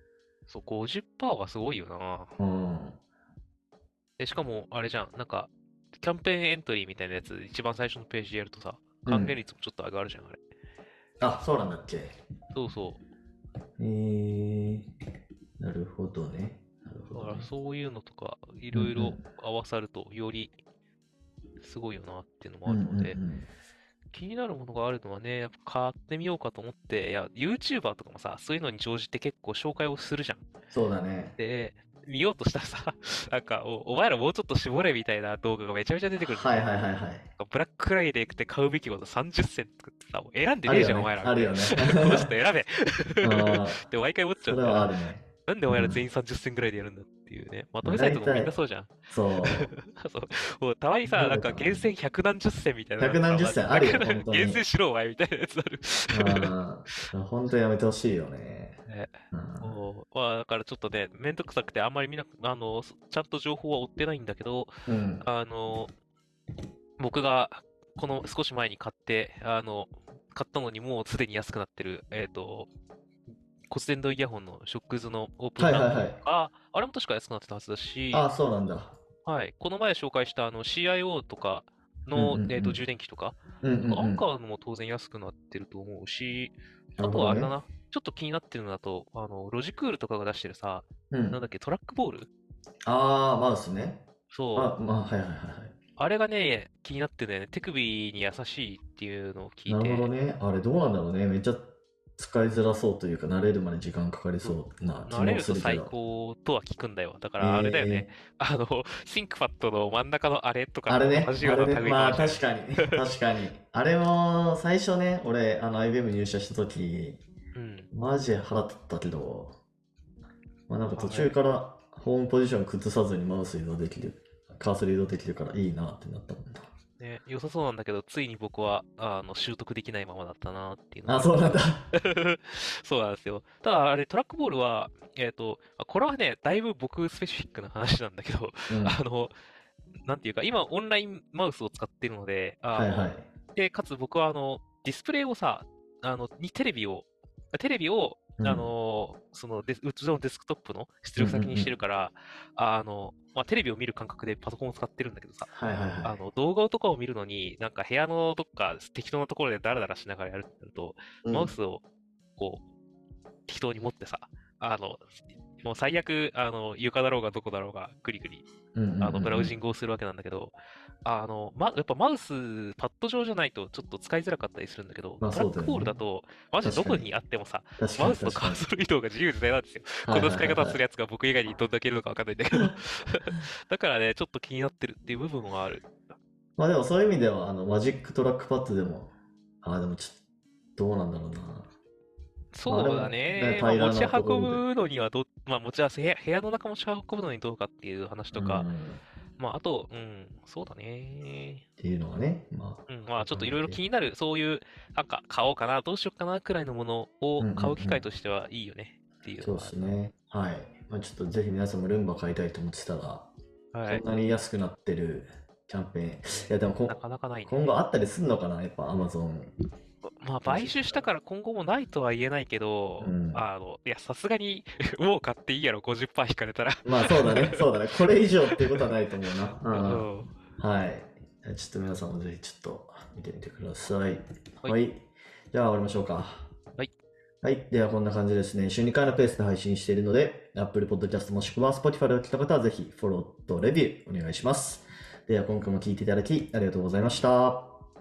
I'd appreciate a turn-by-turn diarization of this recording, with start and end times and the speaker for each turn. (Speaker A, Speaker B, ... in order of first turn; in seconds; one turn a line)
Speaker A: 0.5-2.3
Speaker B: 2.4-3.0
Speaker A: 4.2-10.4
Speaker B: 9.1-9.4
Speaker B: 11.2-12.1
Speaker A: 12.5-13.0
Speaker B: 13.8-14.9
Speaker B: 15.6-17.5
Speaker A: 17.1-20.6
Speaker B: 18.7-19.2
Speaker A: 21.6-23.2
Speaker B: 22.6-23.5
Speaker A: 24.1-30.4
Speaker B: 30.7-31.3
Speaker A: 31.4-36.7
Speaker B: 36.2-37.2
Speaker A: 37.4-48.9
Speaker B: 40.6-42.3
Speaker B: 43.2-43.8
Speaker B: 44.4-46.0
Speaker B: 47.8-48.5
Speaker B: 49.1-49.7
Speaker A: 49.4-56.5
Speaker B: 51.1-51.9
Speaker B: 53.0-54.6
Speaker B: 56.1-58.8
Speaker A: 58.9-65.9
Speaker B: 59.3-59.8
Speaker B: 64.9-65.2
Speaker A: 67.0-72.7
Speaker A: 73.7-78.3
Speaker B: 75.6-76.2
Speaker B: 78.1-78.9
Speaker A: 79.2-92.3
Speaker B: 82.2-82.8
Speaker B: 83.6-84.2
Speaker B: 87.0-87.5
Speaker B: 91.1-91.4
Speaker B: 92.8-94.0
Speaker A: 94.3-94.7
Speaker B: 94.5-95.7
Speaker A: 96.0-100.1
Speaker B: 99.7-105.9
Speaker A: 104.4-112.5
Speaker B: 107.4-108.1
Speaker B: 110.9-117.2
Speaker A: 117.5-117.9
Speaker B: 117.9-119.5
Speaker B: 120.7-126.7
Speaker A: 120.9-121.3
Speaker A: 127.0-139.3
Speaker B: 131.1-131.9
Speaker B: 138.7-139.0
Speaker A: 140.0-155.5
Speaker B: 142.7-143.2
Speaker B: 148.4-148.7
Speaker B: 151.2-151.7
Speaker B: 155.5-156.2
Speaker A: 156.0-161.8
Speaker B: 161.2-161.5
Speaker A: 162.4-162.7
Speaker A: 163.4-168.4
Speaker B: 168.7-169.6
Speaker A: 169.0-185.9
Speaker B: 175.2-176.0
Speaker B: 176.6-177.1
Speaker B: 177.8-178.6
Speaker B: 180.0-180.8
Speaker B: 186.6-189.1
Speaker B: 189.6-190.2
Speaker B: 190.8-191.7
Speaker A: 192.5-198.7
Speaker B: 192.7-194.6
Speaker B: 198.3-199.0
Speaker A: 199.4-201.6
Speaker B: 201.8-203.8
Speaker A: 202.9-209.9
Speaker B: 207.4-208.1
Speaker B: 209.4-213.3
Speaker A: 213.7-214.1
Speaker B: 213.8-219.5
Speaker A: 216.3-217.8
Speaker A: 220.2-227.7
Speaker B: 220.4-221.1
Speaker B: 223.0-223.4
Speaker B: 226.8-230.1
Speaker A: 228.5-228.8
Speaker A: 229.6-230.3
Speaker B: 230.6-236.5
Speaker B: 237.4-247.7